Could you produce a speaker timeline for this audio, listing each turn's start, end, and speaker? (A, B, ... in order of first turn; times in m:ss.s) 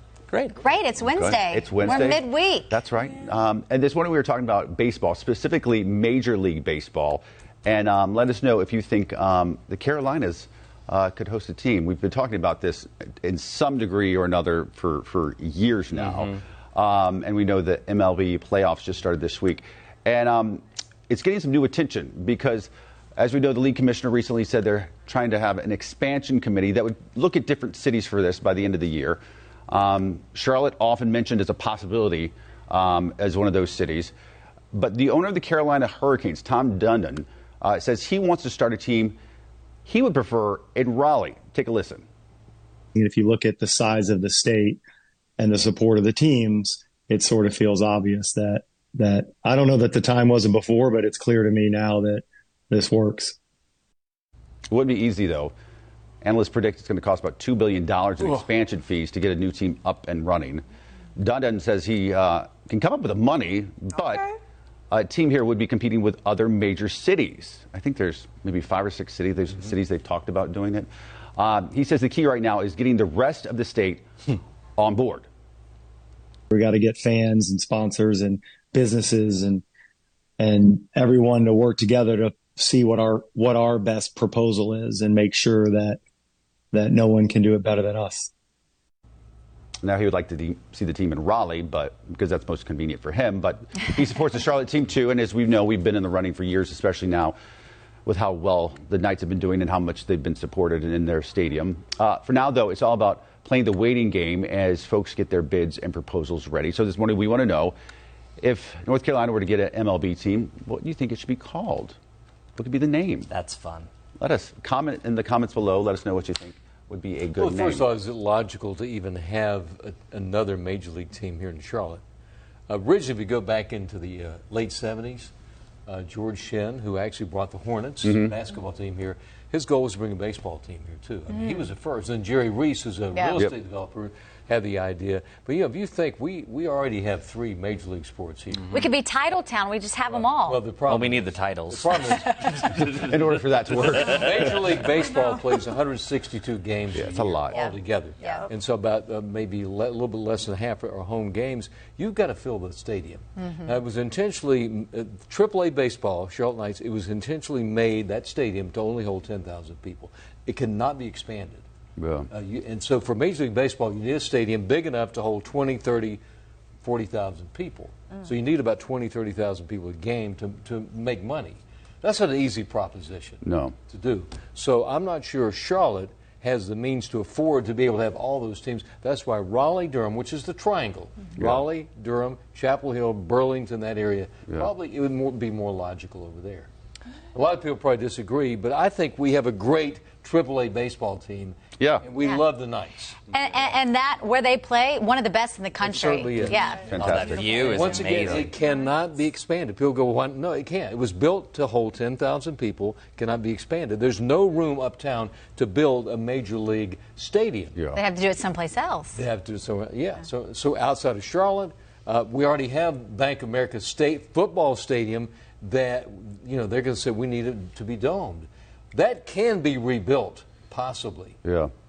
0:00.3-0:00.6 A
0:00.5-0:02.8 B
0:01.0-0:34.1 C
0:34.7-0:39.2 C
0:39.8-0:42.1 C
0:42.9-0:44.8 D
0:45.4-0:53.4 D
0:54.7-0:55.5 C
0:56.2-1:00.6 C
1:01.2-1:04.2 C
1:04.9-1:14.1 C
1:14.8-1:15.3 C
1:16.5-1:19.6 D
1:20.4-1:26.0 D
1:26.7-1:28.3 D
1:29.8-1:37.4 C
1:38.0-1:47.8 C
1:48.4-1:52.0 C
1:52.6-1:53.3 C
1:53.3-1:53.9 A
1:54.2-1:57.9 C
1:57.3-2:02.0 E
2:02.7-2:05.3 E
2:05.8-2:18.8 E
2:08.0-2:08.3 C
2:11.3-2:11.7 B
2:13.1-2:13.4 B
2:18.7-2:20.6 B
2:20.1-2:23.0 E
2:20.9-2:22.1 A
2:22.8-2:24.8 C
2:23.6-2:41.6 E
2:26.9-2:27.6 C
2:27.5-2:28.5 B
2:42.0-2:42.3 C
2:42.3-2:46.2 E
2:46.8-3:06.7 E
2:53.4-2:53.8 C
3:01.4-3:01.6 C
3:07.3-3:13.4 E
3:11.8-3:12.1 C
3:13.3-3:17.0 B
3:15.8-3:27.8 E
3:16.9-3:17.4 C
3:17.0-3:18.5 A
3:18.1-3:18.5 C
3:27.8-3:28.0 C
3:27.9-3:29.2 B
3:29.1-3:41.4 E
3:41.4-3:41.7 C